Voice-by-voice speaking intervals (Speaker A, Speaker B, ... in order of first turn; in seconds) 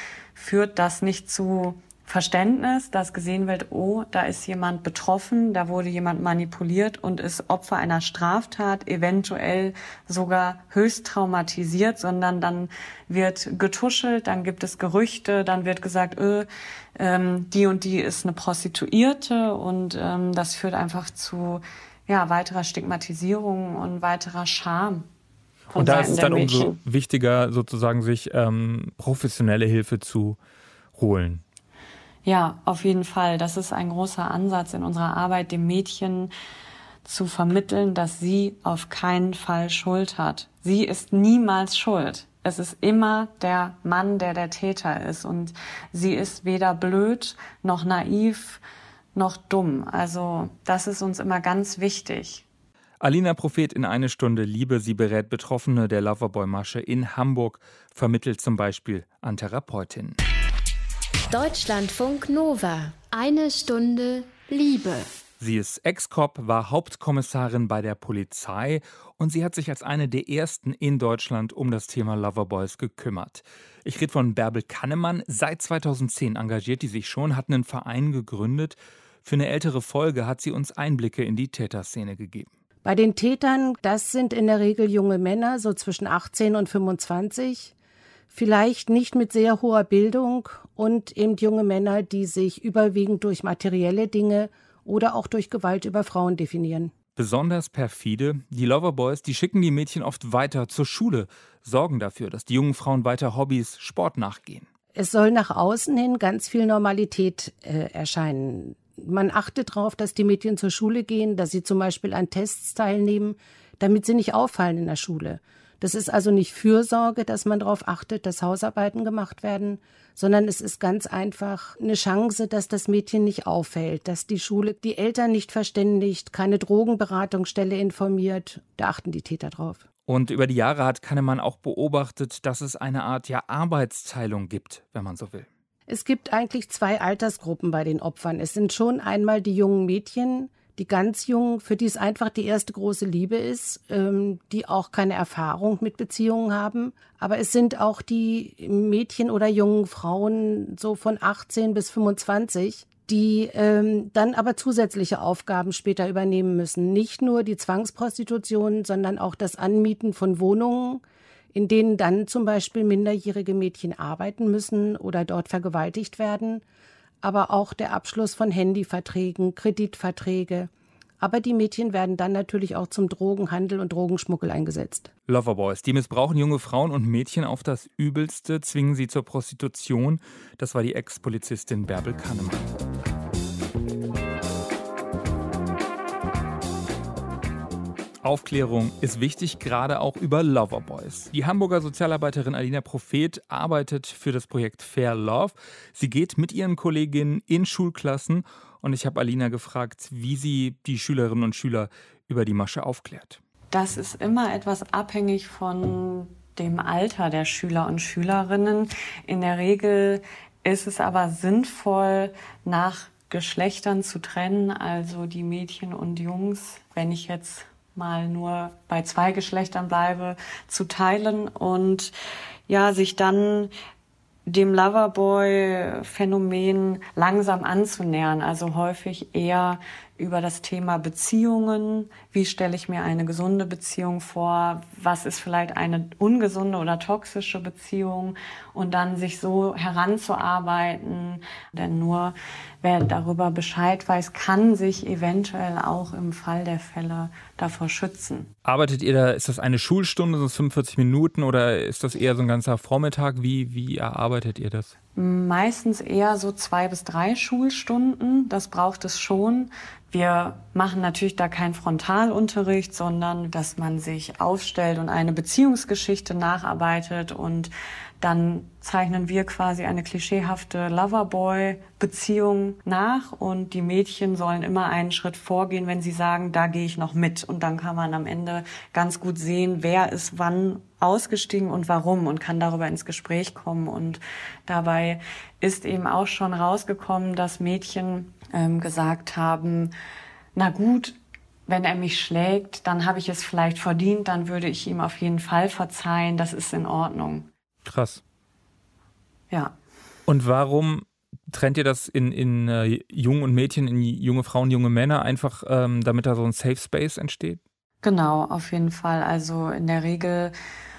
Speaker A: 0.3-25.1, 25.7-26.7, 32.2-36.3, 37.0-48.6, 49.1-52.4, 203.7-222.1, 222.7-223.7, 224.4-248.5, 255.2-289.9, 290.5-291.1, 291.7-297.5, 299.5-299.8, 308.0-310.5
Speaker B: 25.7-30.4, 30.9-31.4, 53.0-60.2, 65.4-82.5, 97.2-104.7, 130.1-135.5, 175.3-182.7, 188.2-203.4, 248.6-254.9, 297.8-298.2, 300.3-307.6
Speaker C: 61.3-65.1
Speaker D: 82.8-87.7, 88.3-96.9, 105.0-129.8, 135.9-161.0, 161.5-166.6, 167.2-175.1